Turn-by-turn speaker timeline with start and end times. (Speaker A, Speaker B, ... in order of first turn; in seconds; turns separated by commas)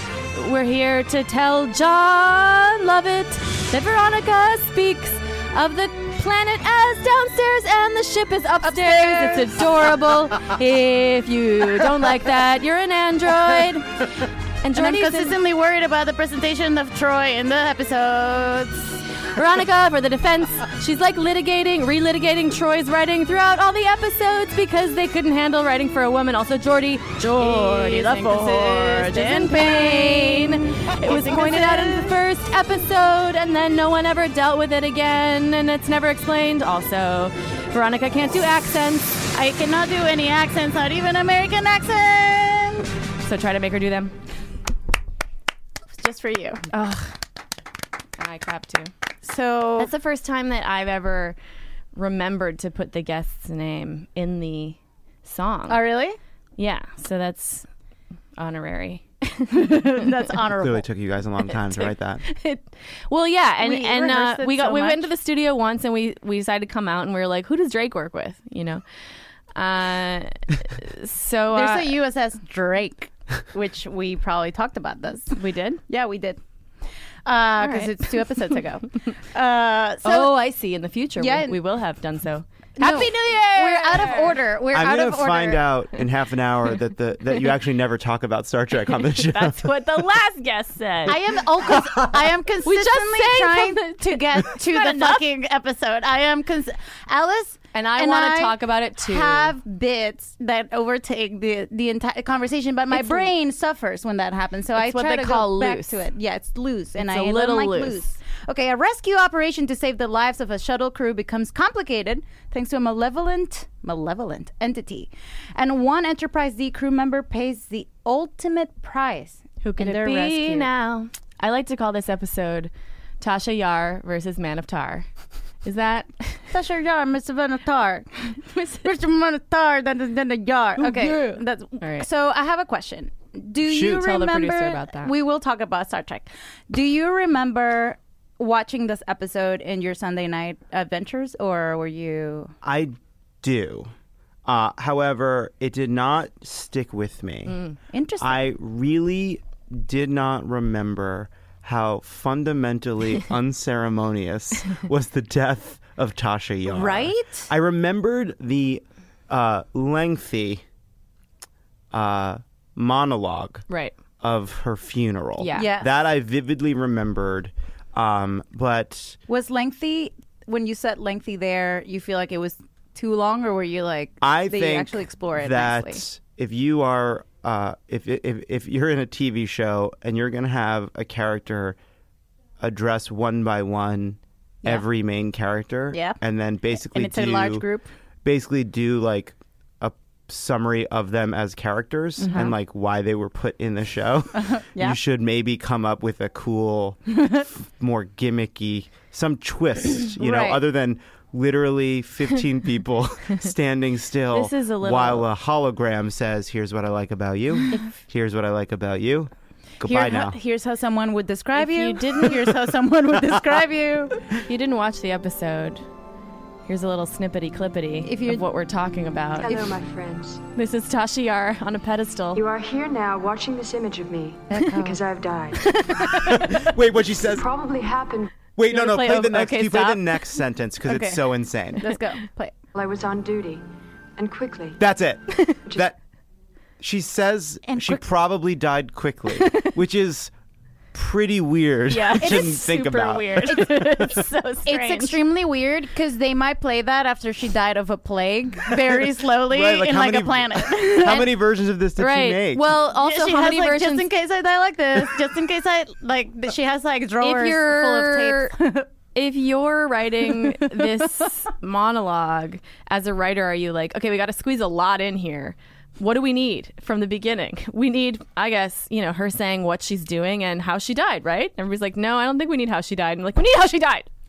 Speaker A: 0.3-15.4, Speaker B: 8.6-9.7, Speaker B: 14.7-19.0, Speaker A: 19.3-39.3, Speaker B: 27.3-32.2, Speaker B: 39.3-42.9, Speaker A: 43.2-44.1, Speaker B: 45.9-46.7, Speaker A: 46.7-47.1, Speaker A: 48.2-48.9, Speaker B: 49.2-49.9, Speaker A: 49.8-51.4, Speaker A: 52.0-55.8, Speaker B: 55.7-56.2, Speaker A: 56.6-57.7, Speaker A: 58.4-60.0, Speaker B: 59.5-60.9, Speaker C: 60.6-62.2, Speaker A: 61.7-68.8, Speaker B: 63.6-65.1, Speaker A: 69.6-71.9, Speaker B: 71.5-76.4, Speaker A: 75.4-75.8, Speaker B: 77.2-80.3, Speaker A: 77.6-78.6, Speaker A: 80.0-84.4, Speaker B: 81.2-81.6, Speaker B: 82.8-85.7, Speaker C: 84.7-89.8, Speaker A: 89.0-91.2, Speaker B: 91.1-120.7, Speaker A: 92.7-95.2, Speaker A: 97.7-99.5, Speaker A: 102.9-103.3, Speaker A: 104.8-106.1, Speaker A: 107.0-108.0, Speaker A: 119.6-125.1, Speaker A: 125.6-126.5, Speaker B: 126.5-142.5, Speaker A: 128.5-128.9, Speaker A: 130.8-132.1, Speaker C: 133.7-134.1, Speaker A: 133.8-135.1, Speaker C: 142.6-143.9, Speaker C: 144.4-147.6, Speaker A: 147.5-147.8, Speaker B: 147.9-148.5, Speaker C: 148.2-160.6, Speaker B: 156.7-157.5, Speaker C: 161.9-163.6, Speaker A: 163.7-164.0, Speaker C: 164.2-169.2, Speaker A: 165.4-165.7, Speaker B: 165.5-165.9, Speaker B: 169.3-176.0, Speaker C: 174.2-181.8, Speaker C: 182.6-187.7, Speaker B: 185.9-186.2, Speaker B: 186.8-187.9, Speaker C: 188.2-210.4, Speaker B: 192.2-192.5, Speaker B: 194.4-195.0, Speaker B: 200.2-200.6, Speaker A: 204.3-205.3, Speaker B: 209.8-214.2, Speaker A: 211.6-212.5, Speaker A: 214.4-215.8, Speaker A: 216.7-219.5, Speaker B: 218.0-218.4, Speaker D: 219.4-220.4, Speaker B: 219.4-219.7, Speaker A: 220.6-222.4, Speaker D: 222.3-225.8, Speaker B: 224.5-225.0, Speaker A: 225.6-226.4, Speaker C: 226.2-227.5, Speaker D: 227.2-228.3, Speaker C: 228.6-231.9, Speaker A: 228.7-230.2, Speaker B: 230.9-232.5, Speaker D: 232.7-233.6, Speaker D: 234.2-234.8, Speaker C: 234.8-236.0, Speaker C: 236.8-240.3, Speaker B: 237.7-238.0, Speaker A: 239.4-239.7, Speaker C: 240.9-243.6, Speaker A: 241.9-245.2, Speaker B: 243.5-251.3, Speaker C: 249.5-252.7, Speaker A: 252.0-254.1, Speaker B: 252.8-258.9, Speaker A: 257.2-258.5, Speaker A: 259.1-274.1